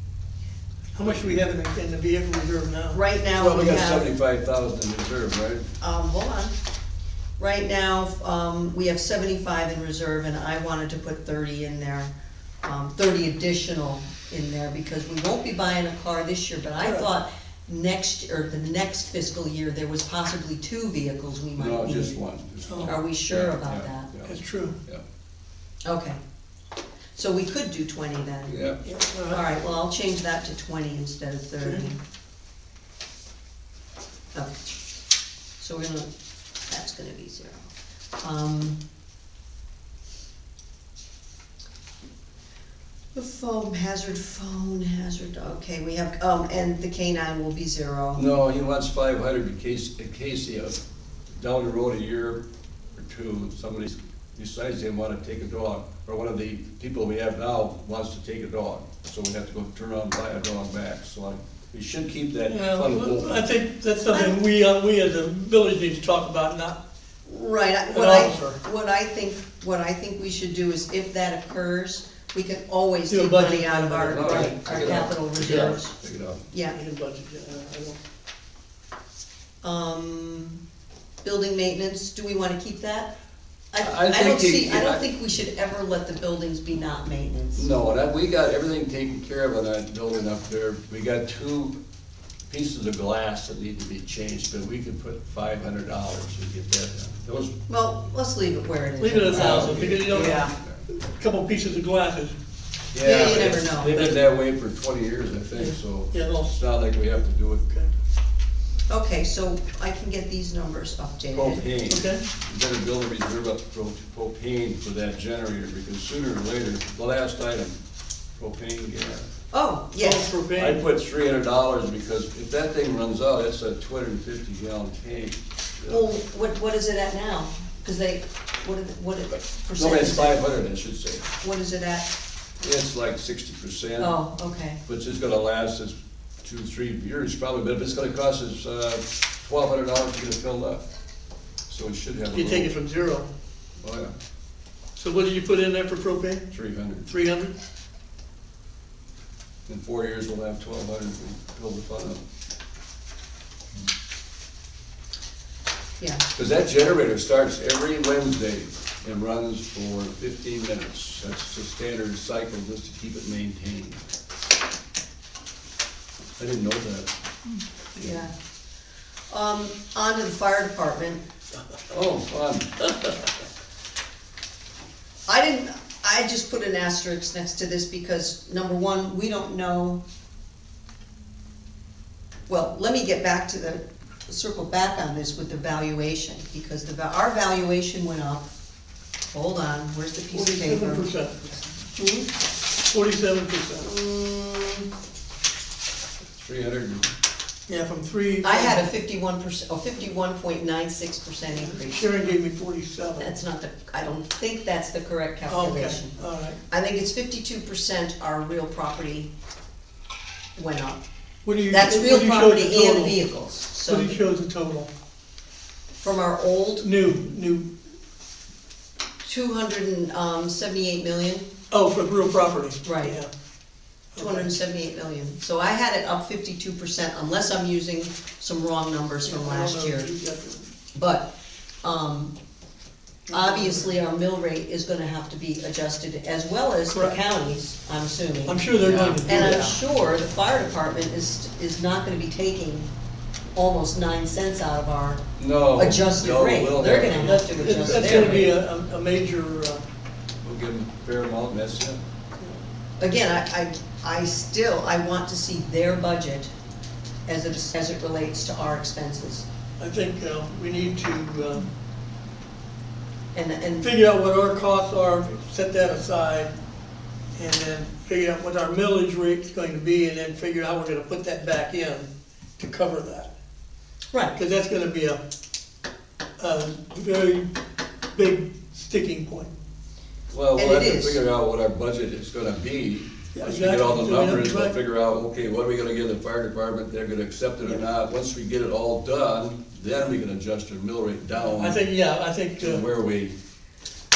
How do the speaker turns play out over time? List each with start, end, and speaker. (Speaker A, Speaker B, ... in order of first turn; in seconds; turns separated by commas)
Speaker A: 0.9-3.7, Speaker B: 1.0-1.4, Speaker C: 2.9-4.1, Speaker B: 3.3-5.7, Speaker C: 5.8-6.5, Speaker C: 7.4-12.1, Speaker C: 12.6-22.2, Speaker A: 16.8-17.1, Speaker B: 21.6-25.0, Speaker A: 22.7-22.9, Speaker C: 22.8-24.1, Speaker A: 24.2-24.8, Speaker C: 25.8-26.2, Speaker C: 27.1-28.5, Speaker B: 28.5-28.8, Speaker A: 28.8-29.4, Speaker C: 29.3-32.0, Speaker C: 35.6-36.1, Speaker C: 36.7-37.6, Speaker C: 38.2-38.8, Speaker C: 43.1-48.2, Speaker B: 48.1-50.8, Speaker B: 51.3-52.4, Speaker B: 52.9-63.5, Speaker A: 62.5-66.8, Speaker C: 64.1-64.4, Speaker C: 67.2-75.9, Speaker A: 67.9-68.6, Speaker A: 73.1-75.0, Speaker B: 74.1-76.5, Speaker C: 76.5-76.8, Speaker A: 76.7-78.0, Speaker C: 79.6-80.6, Speaker C: 81.2-83.1, Speaker C: 83.7-87.7, Speaker B: 83.8-85.0, Speaker B: 87.5-91.8, Speaker B: 92.5-97.5, Speaker C: 97.7-100.5, Speaker A: 99.0-102.3, Speaker B: 99.2-100.8, Speaker B: 102.9-107.6, Speaker C: 103.0-104.2, Speaker A: 105.5-106.5, Speaker C: 108.9-111.6, Speaker B: 111.3-117.8, Speaker A: 111.9-112.2, Speaker B: 118.4-119.2, Speaker C: 119.5-120.3, Speaker A: 120.0-120.8, Speaker B: 120.5-126.0, Speaker C: 125.9-130.4, Speaker B: 129.8-131.3, Speaker C: 131.4-132.1, Speaker B: 132.6-134.1, Speaker C: 134.0-134.8, Speaker B: 134.8-140.8, Speaker B: 141.7-142.8, Speaker A: 142.3-143.3, Speaker B: 143.8-144.1, Speaker A: 144.9-146.4, Speaker B: 146.5-147.1, Speaker A: 147.1-147.5, Speaker B: 149.7-152.2, Speaker C: 156.0-156.2, Speaker B: 156.3-164.0, Speaker B: 166.4-167.1, Speaker C: 167.9-168.3, Speaker C: 169.3-171.2, Speaker B: 171.9-172.9, Speaker C: 175.3-180.0, Speaker C: 182.5-188.5, Speaker C: 189.3-191.1, Speaker A: 190.3-191.5, Speaker C: 191.9-192.3, Speaker A: 192.9-193.9, Speaker C: 193.8-194.9, Speaker B: 196.3-197.1, Speaker A: 197.7-198.9, Speaker C: 198.4-202.2, Speaker A: 201.7-203.3, Speaker C: 203.2-206.1, Speaker A: 205.5-206.6, Speaker C: 206.7-209.3, Speaker C: 210.6-211.0, Speaker A: 211.4-213.2, Speaker C: 211.7-214.2, Speaker A: 213.8-214.9, Speaker C: 216.0-216.9, Speaker A: 216.8-217.7, Speaker C: 219.2-221.5, Speaker A: 221.7-223.3, Speaker C: 222.8-223.2, Speaker A: 224.1-224.5, Speaker C: 224.2-230.1, Speaker A: 229.2-230.7, Speaker C: 230.9-231.3, Speaker C: 231.8-232.3, Speaker A: 233.3-233.9, Speaker C: 233.3-238.6, Speaker A: 236.9-237.2, Speaker A: 238.4-239.8, Speaker B: 238.8-239.7, Speaker C: 239.2-242.9, Speaker C: 243.5-245.2, Speaker B: 245.4-248.5, Speaker C: 245.7-248.5, Speaker A: 247.2-249.8, Speaker B: 250.4-252.0, Speaker C: 253.0-256.5, Speaker C: 257.2-259.4, Speaker A: 259.8-261.7, Speaker C: 263.3-263.9, Speaker A: 263.8-266.5, Speaker A: 267.4-273.3, Speaker A: 274.3-275.2, Speaker A: 276.4-277.5, Speaker A: 278.1-279.5, Speaker B: 280.3-291.9, Speaker C: 280.5-281.2, Speaker A: 283.4-284.7, Speaker A: 291.5-292.8, Speaker B: 292.6-293.3